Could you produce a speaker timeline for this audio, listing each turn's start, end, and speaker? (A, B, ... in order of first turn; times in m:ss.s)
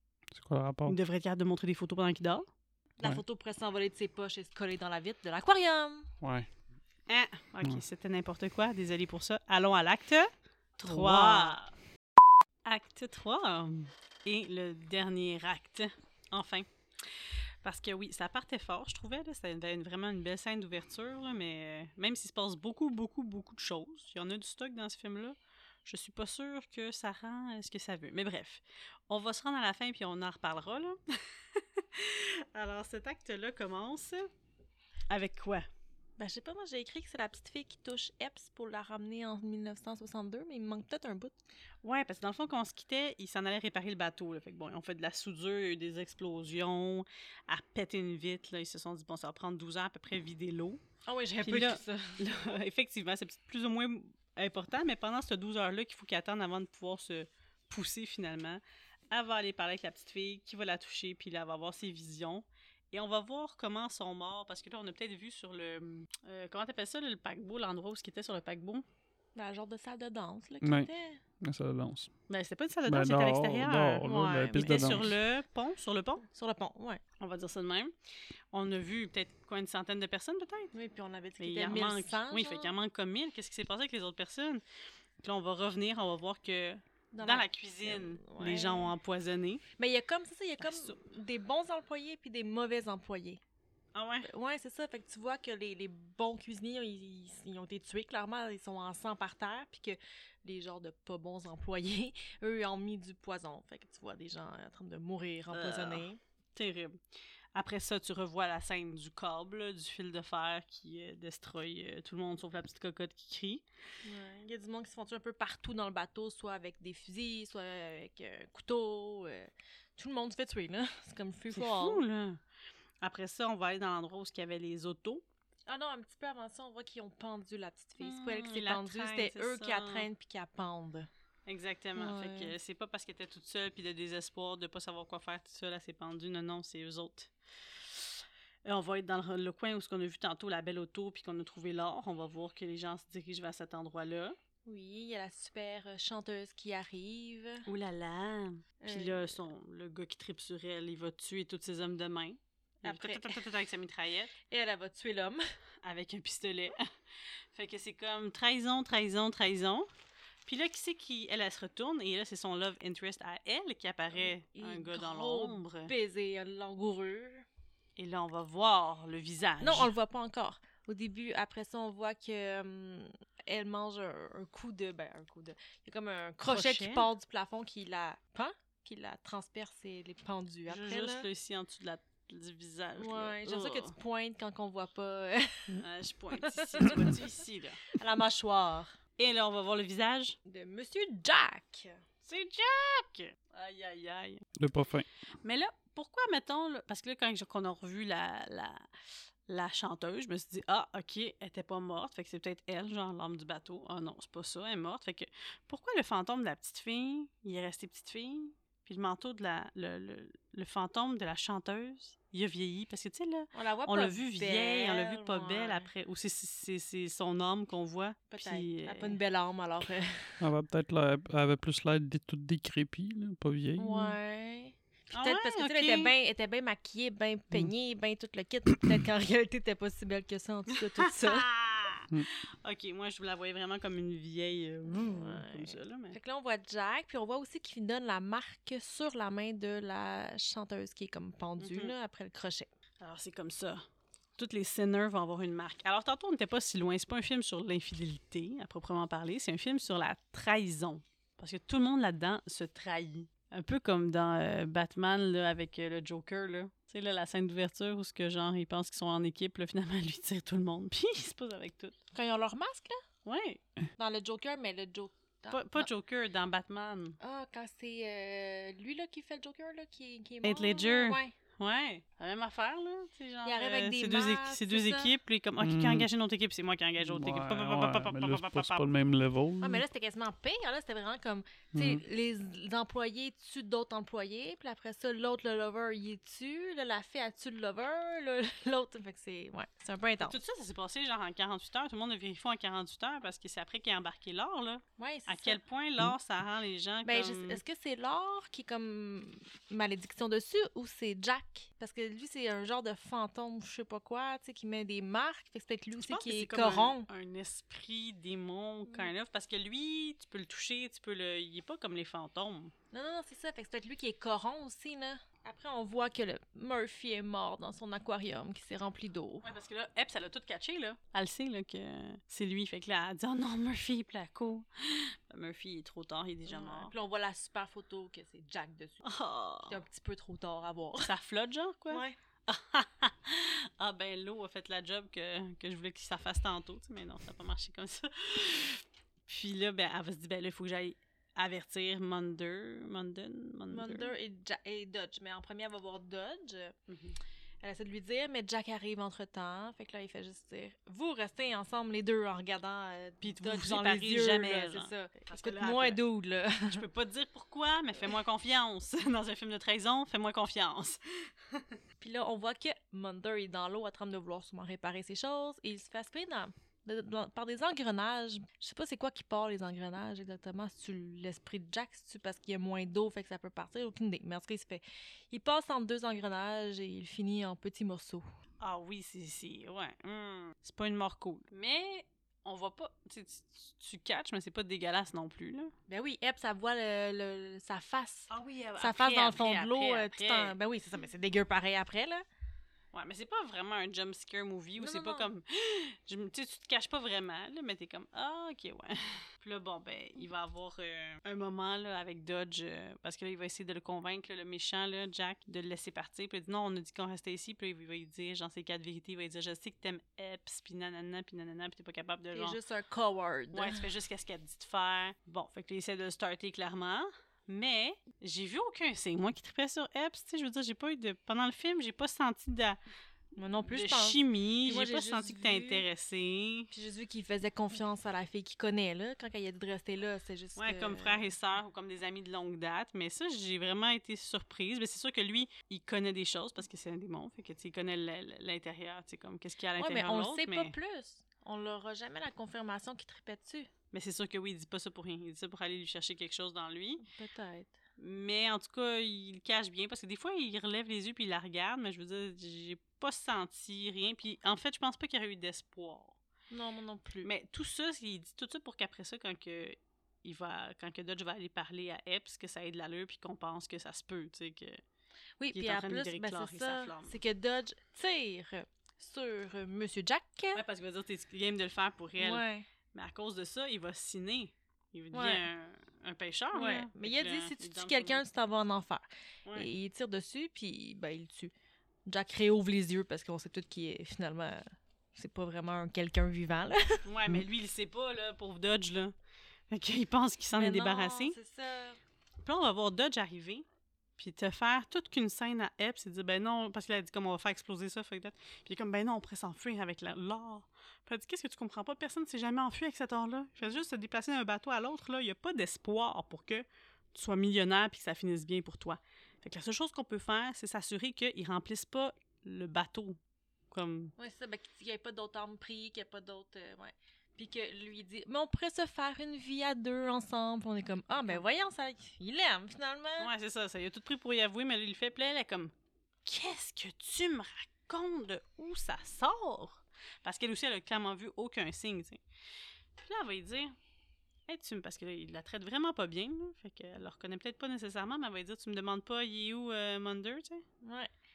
0:00.3-0:01.0 A
0:00.9-0:02.5 B
0:03.0-0:06.1 C
0:06.2-0:06.5 A
0:07.1-0:11.7 B
0:10.8-0:11.3 A
0:10.9-0:11.6 C
0:12.6-0:34.3 B
0:35.1-0:35.7 B
0:36.2-0:41.4 C
0:41.8-0:50.8 B
0:51.1-0:52.4 C
0:51.4-1:08.8 B
1:09.4-1:11.2 C
1:10.6-1:10.9 A
1:11.4-1:12.1 A
1:12.3-1:16.2 B
1:12.9-1:15.1 A
1:14.0-1:15.0 C
1:16.2-1:17.0 C
1:17.2-1:17.9 B
1:18.5-1:20.7 B
1:20.7-1:22.7 C
1:21.4-1:24.6 B
1:25.2-1:29.6 B
1:27.1-1:28.9 C
1:29.8-1:33.4 C
1:30.6-1:31.0 B
1:33.9-1:34.3 B
1:34.2-1:46.2 C
1:45.5-1:47.0 B
1:47.5-1:53.6 B
1:54.0-2:02.0 C
2:01.5-2:02.4 B
2:03.0-2:05.2 B
2:05.7-2:11.1 C
2:08.0-2:10.1 B
2:11.5-2:17.3 B
2:12.0-2:12.5 C
2:18.6-2:24.4 B
2:24.6-2:27.7 C
2:27.7-2:34.3 B
2:28.8-2:29.4 C
2:32.8-2:33.4 C
2:34.5-2:35.4 C
2:35.8-2:36.8 B
2:37.5-2:39.9 B
2:40.5-2:45.9 B
2:44.1-2:47.5 C
2:48.0-2:49.9 B
2:49.6-3:01.3 C
2:56.5-2:57.1 B
3:00.7-3:03.9 B
3:03.0-3:05.8 C
3:05.8-3:08.0 B
3:06.4-3:07.2 C
3:07.9-3:09.0 C
3:09.2-3:10.4 B
3:10.5-3:12.0 C
3:12.2-3:14.4 B
3:14.6-3:15.1 A
3:15.4-3:18.8 B
3:19.5-3:39.2 B
3:33.5-3:35.9 C
3:38.3-3:40.4 C
3:40.4-3:44.2 A
3:43.8-3:51.5 C
3:45.1-3:46.1 B
3:50.8-3:56.2 B
3:54.9-4:02.7 C
4:01.6-4:01.9 B
4:03.0-4:03.8 B
4:04.4-4:22.0 B
4:22.1-4:23.0 C
4:23.2-4:23.6 B
4:24.0-4:25.9 C
4:25.5-4:27.2 B
4:27.2-4:31.3 C
4:30.4-4:38.9 B
4:33.4-4:35.1 C
4:35.6-4:36.1 A
4:37.0-4:39.8 A
4:39.6-4:50.4 C
4:41.7-4:42.0 A
4:50.2-4:57.6 B
4:55.0-4:55.6 C
4:57.0-5:07.1 C
5:06.0-5:12.7 B
5:12.9-5:19.4 C
5:19.4-5:26.9 B
5:26.5-5:29.1 C
5:29.0-5:29.8 B
5:29.7-5:31.1 C
5:31.0-5:44.1 B
5:31.9-5:32.2 C
5:43.7-5:46.8 C
5:46.9-5:47.2 B
5:47.6-5:56.8 C
5:53.2-5:56.0 B
5:56.6-6:01.8 B
6:02.0-6:18.3 C
6:18.6-6:25.7 B
6:25.9-6:32.2 C
6:28.3-6:30.6 B
6:32.9-6:52.6 B
6:34.8-6:35.3 C
6:52.3-6:53.9 C
6:53.5-7:02.8 B
7:03.4-7:05.8 C
7:03.7-7:06.7 B
7:06.7-7:11.3 C
7:10.6-7:20.7 B
7:19.8-7:23.7 C
7:23.9-7:27.0 B
7:27.0-7:27.8 C
7:28.0-7:36.2 B
7:36.5-7:37.3 C
7:37.2-7:44.8 B
7:45.4-7:50.6 C
7:45.5-7:47.2 B
7:50.6-7:52.4 B
7:52.2-7:52.7 C
7:52.9-7:58.2 B
7:55.1-7:55.5 C
7:56.5-8:01.5 C
8:02.1-8:07.4 C
8:07.1-8:09.1 B
8:09.7-8:11.4 B
8:10.6-8:12.0 C
8:12.4-8:13.6 B
8:14.2-8:33.2 B
8:33.7-8:34.1 B
8:34.2-8:43.3 C
8:43.2-8:45.7 B
8:46.2-8:52.2 B
8:53.0-8:53.7 B
8:54.5-9:00.6 B
9:00.8-9:01.1 C